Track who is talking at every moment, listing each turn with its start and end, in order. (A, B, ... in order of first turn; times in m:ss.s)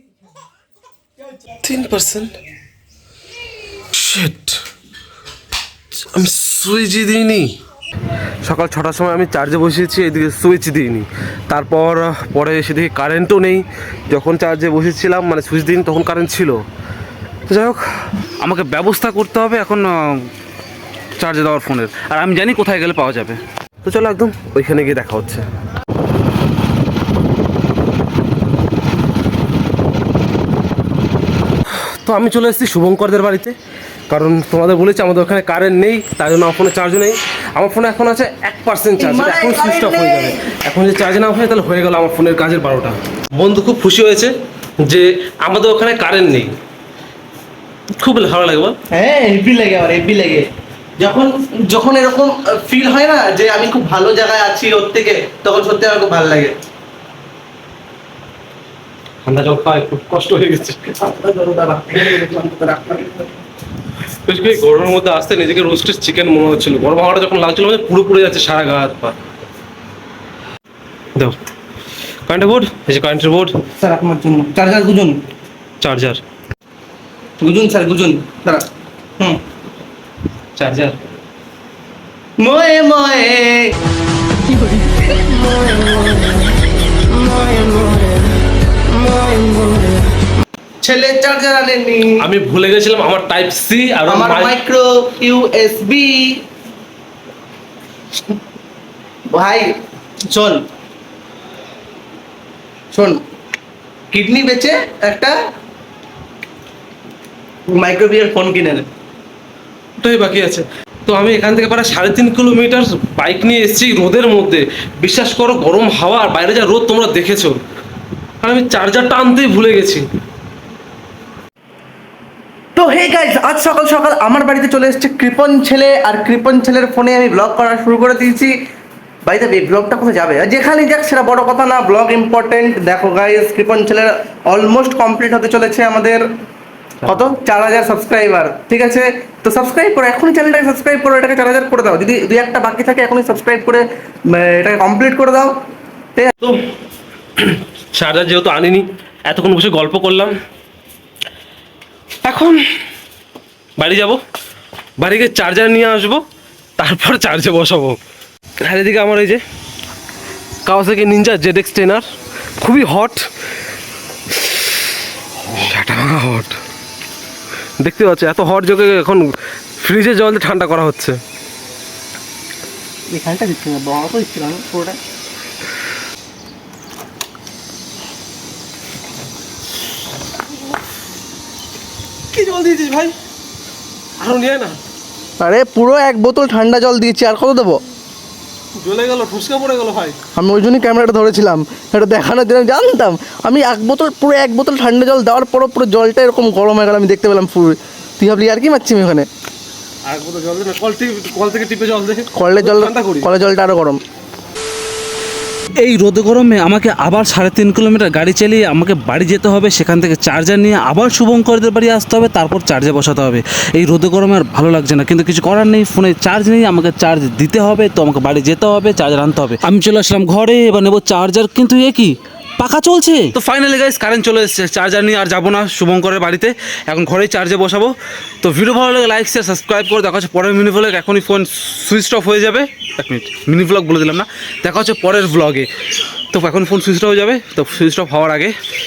0:01.6-0:02.3 A
0:03.9-0:04.6 A
0:05.9-0:07.5 A
0:08.5-0:16.6 A
0:17.5-0:17.8 A
0:18.4-0:20.2 B
0:21.2-0:23.4 B
0:23.8-0:25.4 A
0:24.4-0:25.3 B
0:31.8-0:33.6 A
0:34.1-0:44.3 A
0:39.0-0:40.5 C
0:44.8-0:46.5 A
0:48.0-0:48.8 A
0:48.9-0:56.6 C
0:59.2-1:01.1 A
1:01.0-1:03.2 C
1:04.2-1:09.1 A
1:12.2-1:13.6 A
1:13.8-1:15.2 C
1:15.8-1:16.2 A
1:17.4-1:18.6 C
1:20.6-1:21.0 A
1:22.4-1:23.7 C
1:24.5-1:26.4 C
1:27.1-1:28.2 C
1:29.0-1:30.0 C
1:30.8-1:32.2 C
1:32.2-1:34.6 A
1:34.1-1:36.3 C
1:39.3-1:39.7 C
1:40.3-1:40.6 C
1:42.9-1:43.2 C
1:44.1-1:45.3 C
1:47.7-1:48.9 C
1:50.0-1:57.6 A
1:58.4-2:00.0 A
2:02.7-2:08.5 C
2:09.2-2:16.2 C
2:17.0-2:25.5 C
2:27.4-2:30.3 A
2:32.2-2:32.6 A
2:33.8-2:34.2 A
2:35.0-2:36.2 A
2:36.8-2:38.0 A
2:38.6-2:39.4 A
2:40.7-2:42.0 A
2:42.6-2:43.2 A
2:45.5-2:46.6 A
2:47.8-2:49.3 A
2:49.8-2:51.2 A
2:53.1-2:55.0 C
3:02.3-3:03.1 A
3:04.2-3:04.8 A
3:05.4-3:07.8 C
3:08.8-3:10.2 A
3:10.3-3:19.3 C
3:20.0-3:23.2 A
3:22.3-3:24.0 C
3:25.8-3:55.7 B
3:56.3-3:58.5 B